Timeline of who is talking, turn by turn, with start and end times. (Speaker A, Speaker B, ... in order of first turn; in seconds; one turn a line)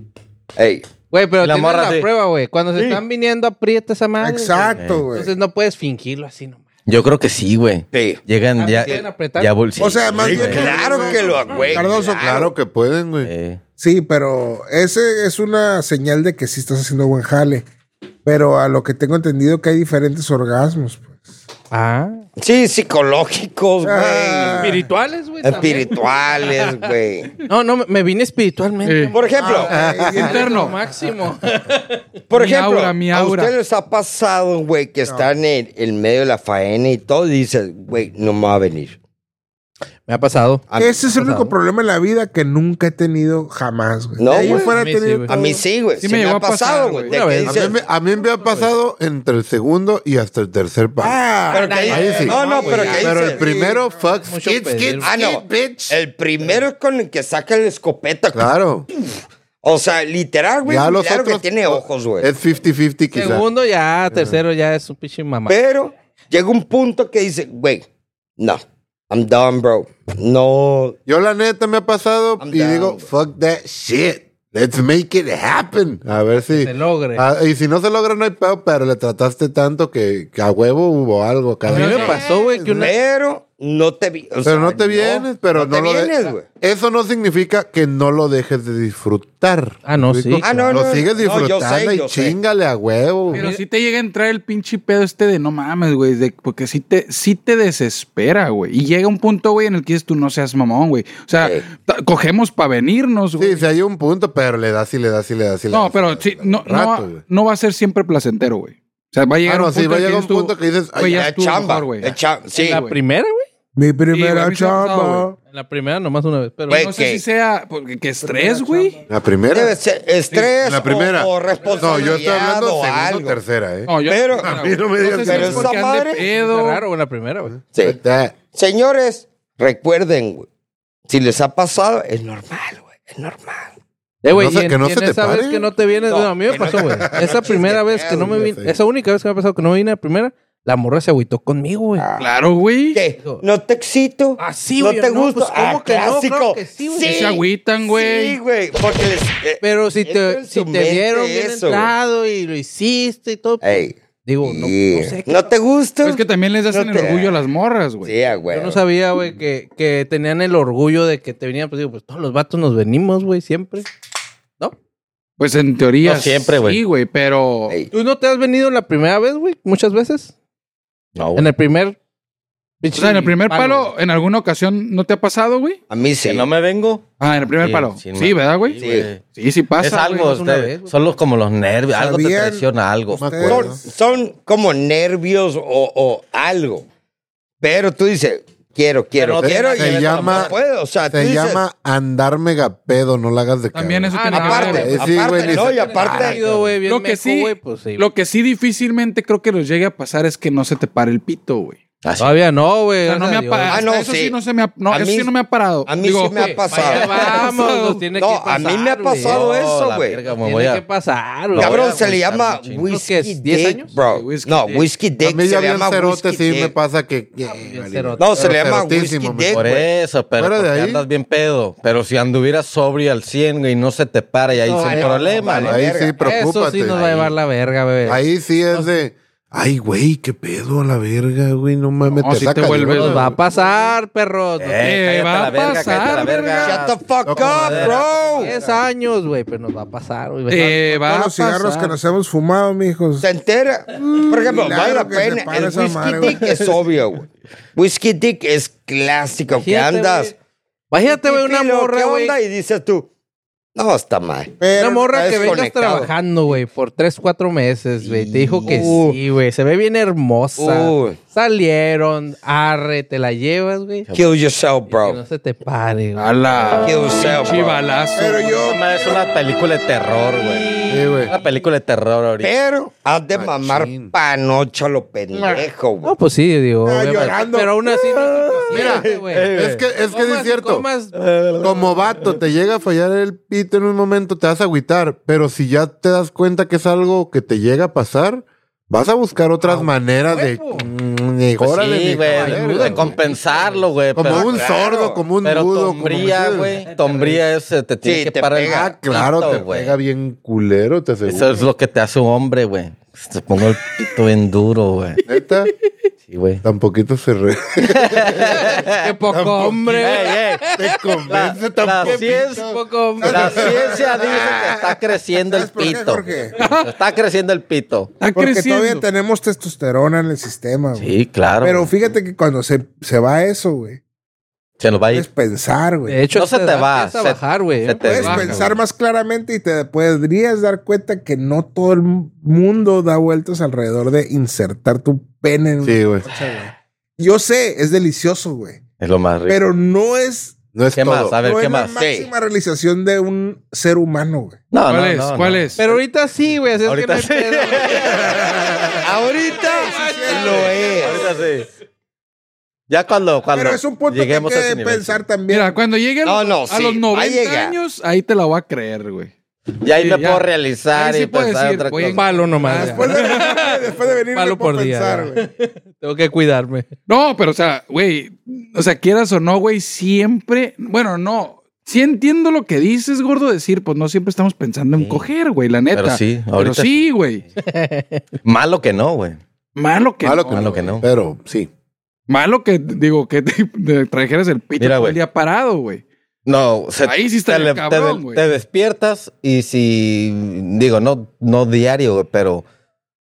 Speaker A: 0.6-0.9
Speaker B: 1.1-6.6
Speaker C: 1.4-2.1
Speaker A: 2.7-3.0
Speaker D: 4.2-5.3
Speaker C: 4.8-5.1
Speaker C: 6.8-10.8
Speaker A: 7.9-8.2
Speaker B: 8.6-9.5
Speaker D: 9.8-12.3
Speaker A: 10.2-12.5
Speaker E: 10.3-13.3
Speaker C: 13.2-13.6
Speaker D: 13.8-17.6
Speaker D: 18.2-21.2
Speaker B: 21.7-22.2
Speaker A: 22.4-24.7
Speaker D: 23.8-24.9
Speaker B: 24.6-26.7
Speaker A: 25.4-27.3
Speaker B: 27.4-32.0
Speaker F: 28.8-29.1
Speaker A: 29.1-29.7
Speaker D: 29.3-30.8
Speaker E: 29.7-30.4
Speaker F: 30.3-30.7
Speaker A: 32.3-39.0
Speaker F: 32.3-33.5
Speaker B: 40.1-40.6
Speaker A: 40.7-41.0
Speaker D: 40.8-45.6
Speaker B: 41.2-41.5
Speaker A: 44.2-44.7
Speaker B: 44.4-45.6
Speaker A: 45.3-47.8
Speaker F: 46.0-47.1
Speaker B: 47.1-47.8
Speaker E: 47.4-51.2
Speaker B: 48.4-48.7
Speaker D: 51.0-54.1
Speaker A: 51.5-53.4
Speaker B: 51.6-53.3
Speaker E: 51.9-52.4
Speaker E: 52.9-56.0
Speaker B: 54.2-55.1
Speaker A: 55.0-58.5
Speaker E: 58.3-58.9
Speaker A: 59.6-62.3
Speaker E: 60.6-63.5
Speaker B: 63.1-65.5
Speaker E: 64.1-64.4
Speaker A: 65.5-67.8
Speaker A: 68.4-71.0
Speaker E: 71.0-82.9
Speaker A: 72.4-73.1
Speaker B: 76.5-77.2
Speaker B: 81.7-82.9
Speaker F: 81.7-82.2
Speaker A: 82.7-86.5
Speaker E: 84.4-93.4
Speaker B: 89.8-90.6
Speaker A: 90.4-92.3
Speaker F: 93.3-103.6
Speaker B: 93.3-93.6
Speaker A: 101.4-101.7
Speaker E: 103.4-107.2
Speaker F: 105.7-112.1
Speaker E: 109.4-111.3
Speaker A: 111.1-112.8
Speaker B: 112.5-113.5
Speaker F: 112.7-112.9
Speaker D: 113.8-115.4
Speaker F: 114.1-115.2
Speaker B: 115.4-116.8
Speaker A: 116.7-117.2
Speaker F: 116.7-119.0
Speaker D: 118.2-118.8
Speaker E: 119.1-119.8
Speaker A: 119.5-123.4
Speaker E: 120.5-123.9
Speaker F: 123.9-126.8
Speaker A: 124.0-126.2
Speaker E: 124.4-125.7
Speaker B: 126.2-127.6
Speaker E: 127.8-128.3
Speaker A: 128.5-130.5
Speaker A: 131.1-133.7
Speaker B: 134.2-142.1
Speaker E: 134.3-135.7
Speaker A: 136.1-138.4
Speaker E: 138.1-138.8
Speaker A: 142.0-142.3
Speaker F: 142.2-143.0
Speaker A: 142.9-151.9
Speaker B: 144.4-147.2
Speaker F: 147.0-148.4
Speaker B: 149.6-155.5
Speaker A: 153.6-157.4
Speaker F: 156.0-158.1
Speaker A: 158.0-158.8
Speaker B: 158.5-163.9
Speaker F: 165.4-167.7
Speaker C: 166.0-166.8
Speaker B: 167.9-170.3
Speaker C: 171.1-171.5
Speaker B: 171.3-171.9
Speaker B: 172.8-173.9
Speaker F: 172.9-175.8
Speaker A: 175.9-176.4
Speaker C: 176.2-179.2
Speaker F: 177.2-180.3
Speaker A: 178.8-179.1
Speaker C: 179.8-183.3
Speaker B: 180.1-180.9
Speaker D: 181.9-183.7
Speaker E: 183.1-183.8
Speaker A: 183.4-186.8
Speaker A: 187.6-191.6
Speaker C: 189.2-190.6
Speaker E: 189.4-190.5
Speaker E: 191.1-196.7
Speaker F: 193.7-195.1
Speaker B: 194.1-198.1
Speaker A: 194.3-196.4
Speaker F: 196.8-201.8
Speaker C: 202.0-202.3
Speaker B: 202.2-203.8
Speaker F: 203.1-208.1
Speaker A: 203.7-205.3
Speaker A: 205.8-207.5
Speaker B: 206.3-209.5
Speaker A: 208.1-210.2
Speaker C: 209.2-210.8
Speaker B: 210.3-211.9
Speaker C: 211.5-212.9
Speaker A: 211.6-216.7
Speaker B: 212.8-213.9
Speaker F: 214.1-214.9
Speaker E: 215.2-219.6
Speaker B: 217.5-218.5
Speaker A: 218.2-219.8
Speaker C: 219.5-225.8
Speaker E: 220.4-221.0
Speaker B: 224.6-228.9
Speaker A: 224.8-226.1
Speaker E: 225.6-227.0
Speaker C: 226.9-227.3
Speaker E: 228.0-233.4
Speaker F: 232.2-233.3
Speaker B: 232.9-234.9
Speaker C: 234.6-238.1
Speaker F: 234.8-236.8
Speaker A: 236.6-238.6
Speaker E: 237.2-238.1
Speaker B: 238.3-241.0
Speaker F: 240.5-241.9
Speaker D: 241.0-243.3
Speaker A: 243.2-250.3
Speaker D: 244.0-246.6
Speaker C: 246.2-246.7
Speaker B: 249.5-250.3
Speaker B: 250.9-252.3
Speaker A: 251.0-253.1
Speaker A: 253.7-256.1
Speaker D: 254.6-255.4
Speaker B: 254.8-264.1
Speaker A: 258.0-259.2
Speaker A: 260.6-261.2
Speaker A: 264.1-265.2
Speaker B: 264.9-266.3
Speaker F: 266.2-268.6
Speaker A: 266.8-267.8
Speaker D: 268.1-269.3
Speaker C: 268.6-272.5
Speaker E: 270.9-271.3
Speaker A: 272.4-276.1
Speaker E: 273.3-274.1
Speaker D: 275.3-275.6
Speaker B: 276.0-279.5
Speaker D: 276.8-278.0
Speaker E: 278.7-280.9
Speaker A: 278.9-279.1
Speaker C: 279.3-279.8
Speaker B: 280.1-281.1
Speaker C: 281.1-282.4
Speaker E: 281.6-293.1
Speaker B: 289.6-290.9
Speaker C: 291.6-294.7
Speaker B: 292.3-293.9
Speaker E: 294.1-296.8
Speaker A: 294.2-295.2
Speaker C: 295.4-299.9
Speaker B: 296.9-297.4
Speaker A: 298.0-298.9
Speaker E: 298.6-301.6
Speaker C: 301.3-305.2
Speaker E: 305.2-305.7
Speaker C: 306.3-306.6
Speaker E: 306.6-315.0
Speaker C: 307.8-309.0
Speaker B: 308.8-311.2
Speaker C: 310.0-310.6
Speaker C: 311.3-312.6
Speaker B: 312.0-313.8
Speaker D: 313.2-314.2
Speaker C: 313.2-318.1
Speaker D: 315.4-316.6
Speaker F: 316.6-316.9
Speaker F: 318.2-319.0
Speaker D: 318.3-324.0
Speaker C: 320.9-321.9
Speaker C: 324.8-325.3
Speaker D: 325.1-326.2
Speaker B: 326.1-328.4
Speaker C: 326.3-328.8
Speaker D: 328.0-338.8
Speaker F: 328.2-328.6
Speaker E: 335.8-336.2
Speaker C: 339.0-339.6
Speaker D: 339.5-340.6
Speaker E: 340.7-341.4
Speaker C: 340.9-342.0
Speaker D: 341.3-344.6
Speaker A: 342.0-342.3
Speaker C: 344.7-346.0
Speaker F: 344.9-345.8
Speaker B: 345.8-348.5
Speaker C: 346.8-348.8
Speaker A: 349.0-351.3
Speaker D: 349.6-351.3
Speaker B: 349.6-351.1
Speaker C: 351.0-351.7
Speaker C: 352.9-355.2
Speaker D: 353.5-355.8
Speaker F: 355.5-359.3
Speaker A: 356.2-357.8
Speaker C: 359.8-362.7
Speaker F: 359.9-363.8
Speaker B: 362.1-363.1
Speaker D: 362.7-365.5
Speaker B: 364.3-366.9
Speaker F: 367.1-377.4
Speaker C: 374.9-375.2
Speaker C: 375.9-376.9
Speaker B: 377.6-378.2
Speaker C: 378.4-379.4
Speaker F: 379.8-380.9
Speaker E: 380.2-381.7
Speaker C: 380.5-381.0
Speaker F: 382.3-386.0
Speaker C: 384.8-385.2
Speaker C: 386.4-392.6
Speaker F: 387.0-388.4